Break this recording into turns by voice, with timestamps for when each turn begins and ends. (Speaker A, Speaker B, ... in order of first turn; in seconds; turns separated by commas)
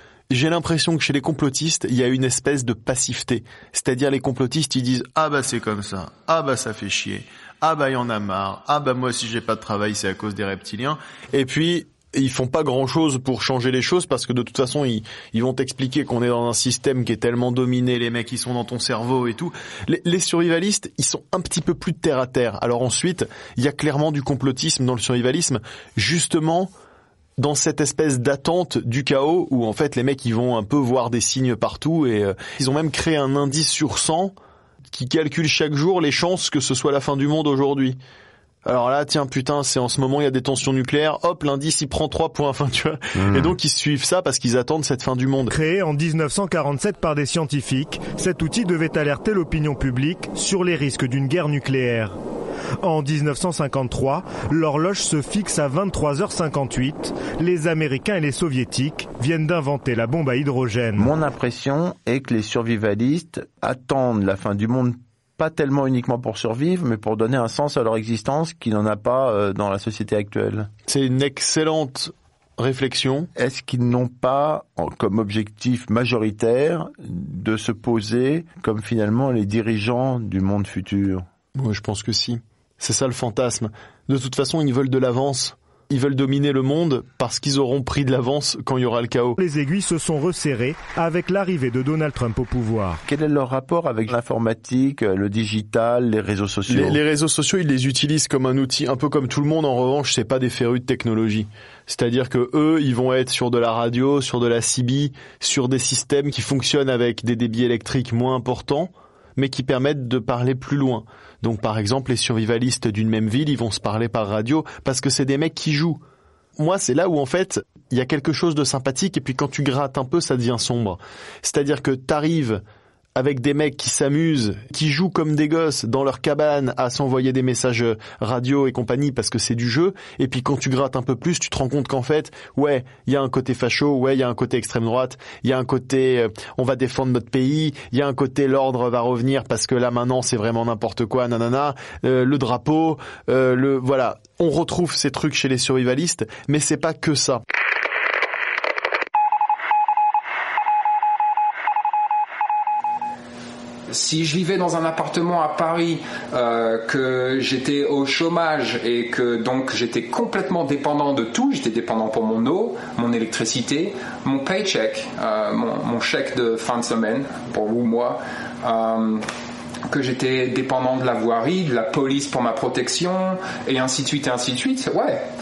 Speaker A: 0.3-26.7, Speaker A: 27.4-34.3, Speaker A: 34.9-38.0, Speaker A: 38.6-45.5, Speaker B: 43.1-43.5, Speaker C: 45.5-52.2, Speaker C: 52.8-61.1, Speaker B: 61.0-70.7, Speaker A: 70.9-73.3, Speaker B: 73.3-81.2, Speaker A: 81.5-89.4, Speaker C: 89.4-93.0, Speaker B: 93.0-97.0, Speaker A: 96.7-116.0, Speaker A: 116.6-122.6, Speaker A: 123.2-147.4, Speaker D: 153.9-169.2, Speaker D: 169.9-175.3